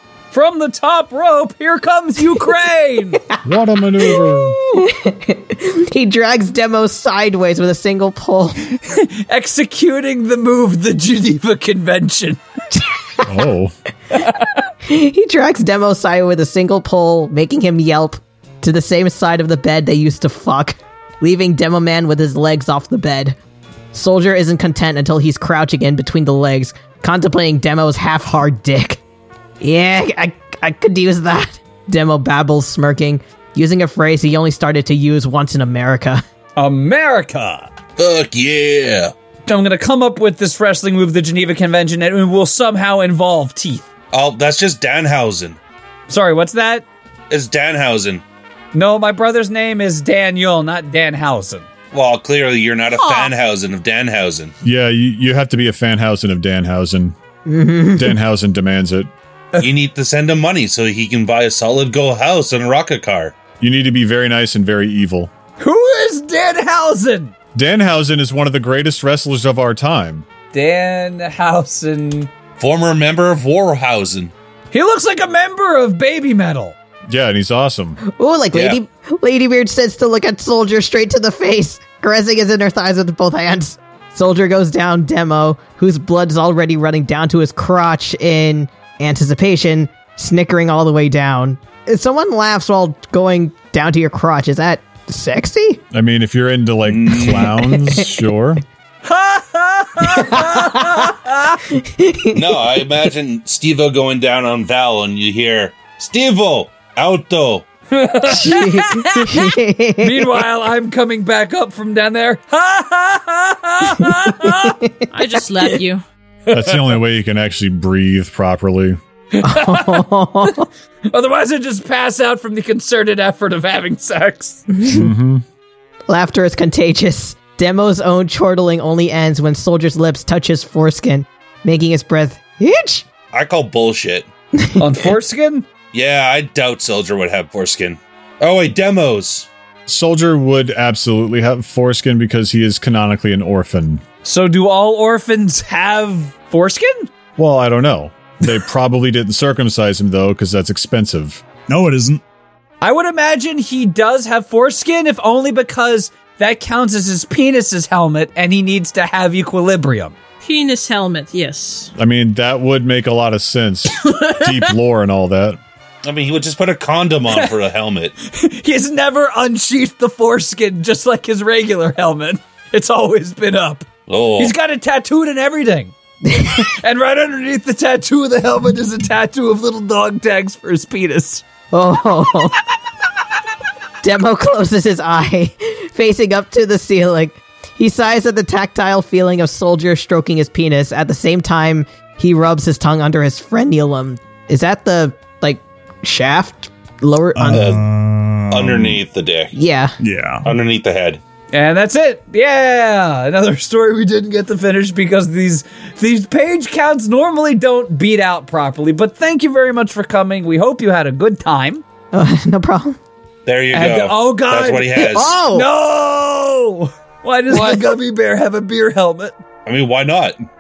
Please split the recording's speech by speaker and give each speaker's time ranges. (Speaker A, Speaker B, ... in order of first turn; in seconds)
Speaker A: 0.3-3.2, 8.8-12.4, 14.2-14.6, 36.6-37.7, 39.5-43.9, 46.1-46.9, 48.7-51.7, 65.6-67.3, 70.5-72.3, 74.7-76.8, 99.0-101.6, 107.9-114.8, 116.5-117.0, 119.3-124.7, 134.8-135.7, 144.2-147.1, 152.8-160.2, 168.2-175.9, 176.8-181.4, 201.5-211.8, 213.7-219.3
Speaker B: 3.4-4.6, 13.2-13.7, 54.6-57.1, 58.0-59.1, 63.6-65.3, 67.5-70.3, 77.1-78.0, 95.9-98.6, 116.5-119.0, 124.8-125.4, 139.9-144.0, 147.4-151.4, 162.0-165.6
Speaker C: 4.1-8.6, 12.8-13.4, 14.9-23.4, 23.9-29.0, 29.6-36.2, 57.5-58.2, 78.0-95.8, 100.3-100.9, 101.8-102.4, 108.3-110.3, 114.4-115.0, 119.4-120.7, 124.8-125.1, 126.1-133.1, 176.2-176.7, 181.7-182.6, 184.0-197.8, 199.5-199.9, 212.1-213.0, 215.0-215.7, 217.5-217.9
Speaker D: 38.0-39.1, 44.1-45.6, 47.3-48.2, 51.9-54.5, 59.6-63.4, 72.6-74.3, 78.5-78.8, 96.8-97.7, 102.3-107.7, 133.3-134.3, 135.9-139.5, 166.0-168.1, 174.1-174.5, 197.5-197.8, 198.5-199.5, 200.4-201.2, 213.5-215.4, 219.7-220.4
Speaker E: 53.0-53.3, 115.1-116.0, 160.4-161.9, 163.9-164.6
Speaker F: 151.7-152.2, 197.3-199.0, 200.0-200.5